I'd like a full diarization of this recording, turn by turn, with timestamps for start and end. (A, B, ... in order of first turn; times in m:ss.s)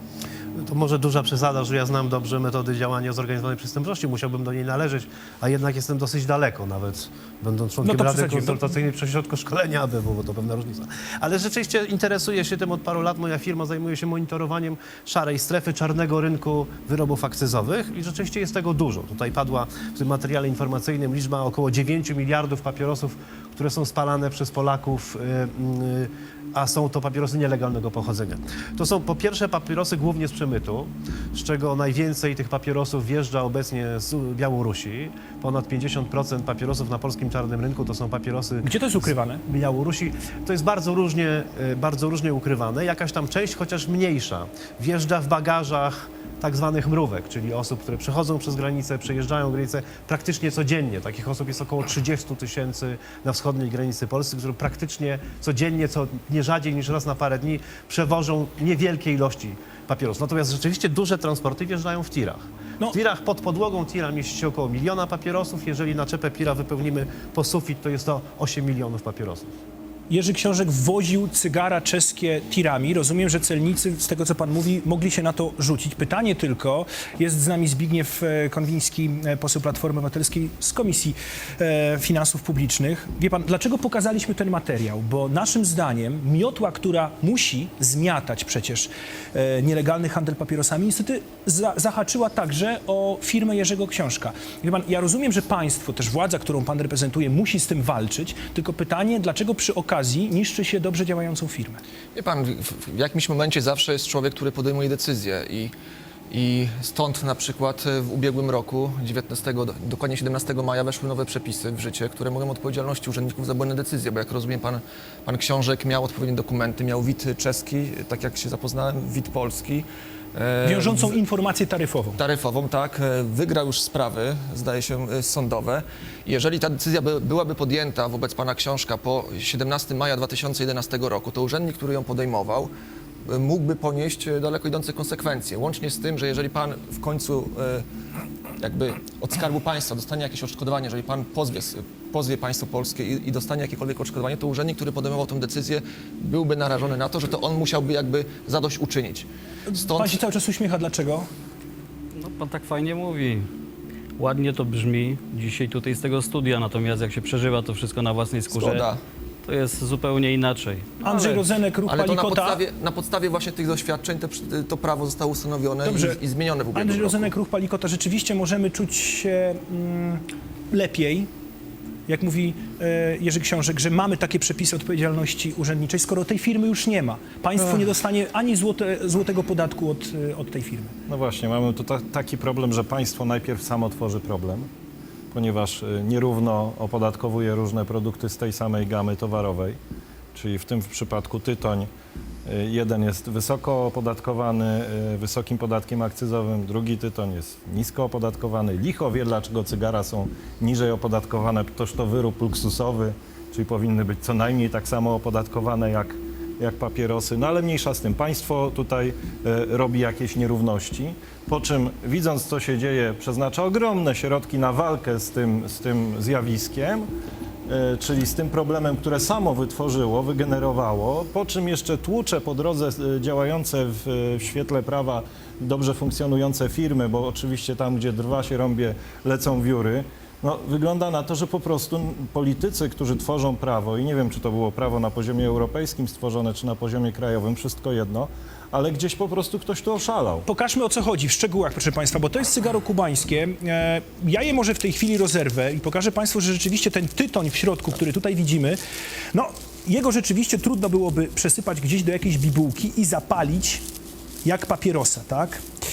0:00.6-1:09.5 A
0:07.8-0:08.6 B
0:38.6-0:39.4 B
1:10.1-1:41.8 B
1:42.1-1:45.7 C
1:46.3-2:01.2 C
2:00.6-2:02.2 B
2:02.1-2:12.7 C
2:13.2-2:17.8 C
2:18.6-2:30.2 C
2:29.7-2:31.3 B
2:32.2-2:33.5 D
2:34.2-2:38.9 D
2:38.5-2:39.0 C
2:39.4-2:41.4 D
2:41.0-2:42.6 B
2:41.8-2:47.3 C
2:45.8-2:46.2 B
2:46.7-2:51.3 B
2:52.1-3:00.9 B
3:01.1-3:04.7 E
3:05.3-3:09.8 E
3:10.3-3:11.9 E
3:12.4-3:37.1 E
3:37.7-4:00.4 E
4:00.4-4:08.8 B
4:09.3-4:13.8 B
4:14.4-4:15.6 B